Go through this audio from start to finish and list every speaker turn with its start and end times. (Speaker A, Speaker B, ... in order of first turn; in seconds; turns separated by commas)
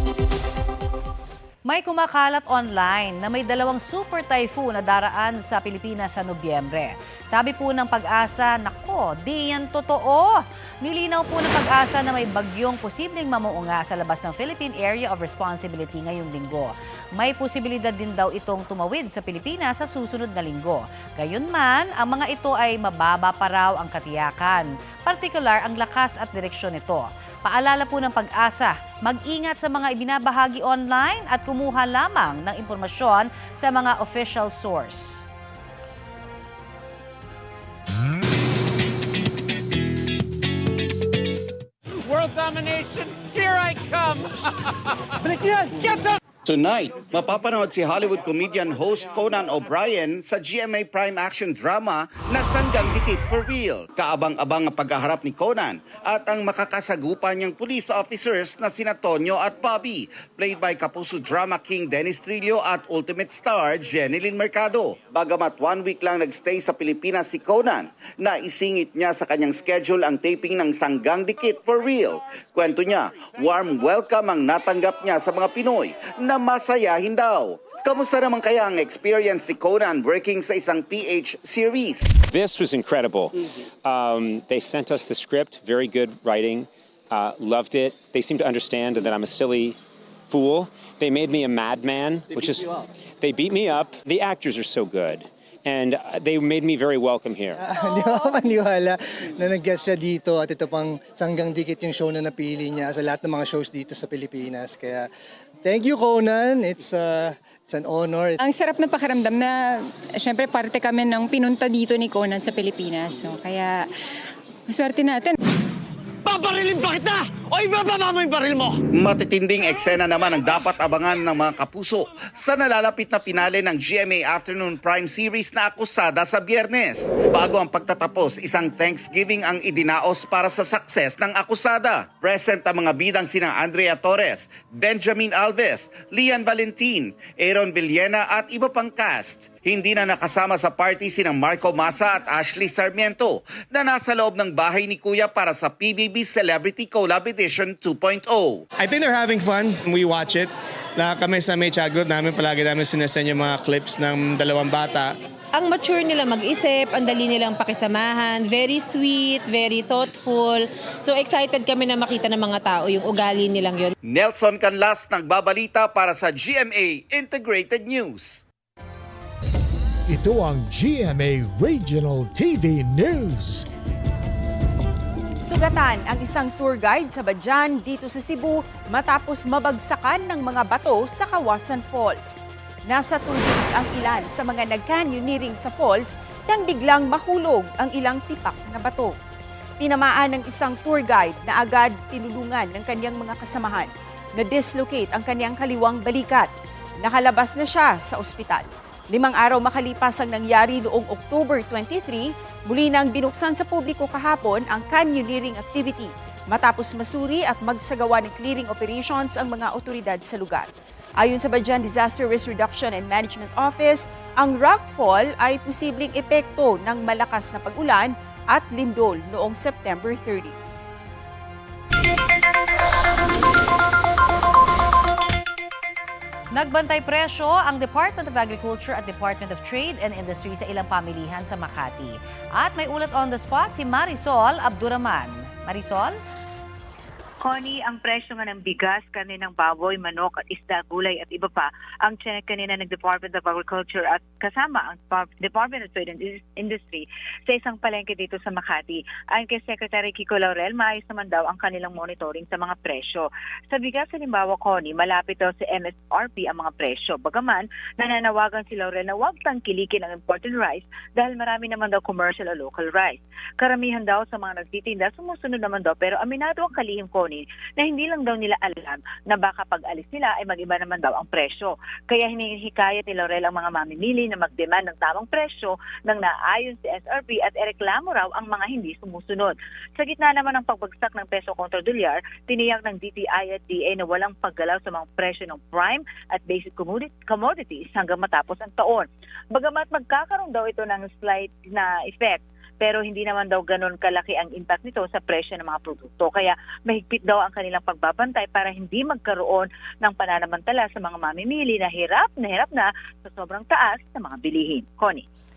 Speaker A: 1.6-35.2, Speaker B: 46.5-82.1, Speaker C: 82.3-89.8, Speaker C: 90.3-97.7, Speaker D: 97.6-105.1, Speaker D: 105.6-108.4, Speaker E: 108.4-113.9, Speaker E: 114.7-115.3, Speaker F: 116.2-118.8, Speaker B: 118.9-148.6, Speaker G: 148.8-155.1, Speaker H: 155.5-163.9, Speaker B: 164.1-168.4, Speaker I: 170.1-173.6, Speaker J: 175.4-189.2, Speaker J: 189.8-220.6, Speaker A: 226.5-236.2, Speaker K: 237.4-305.2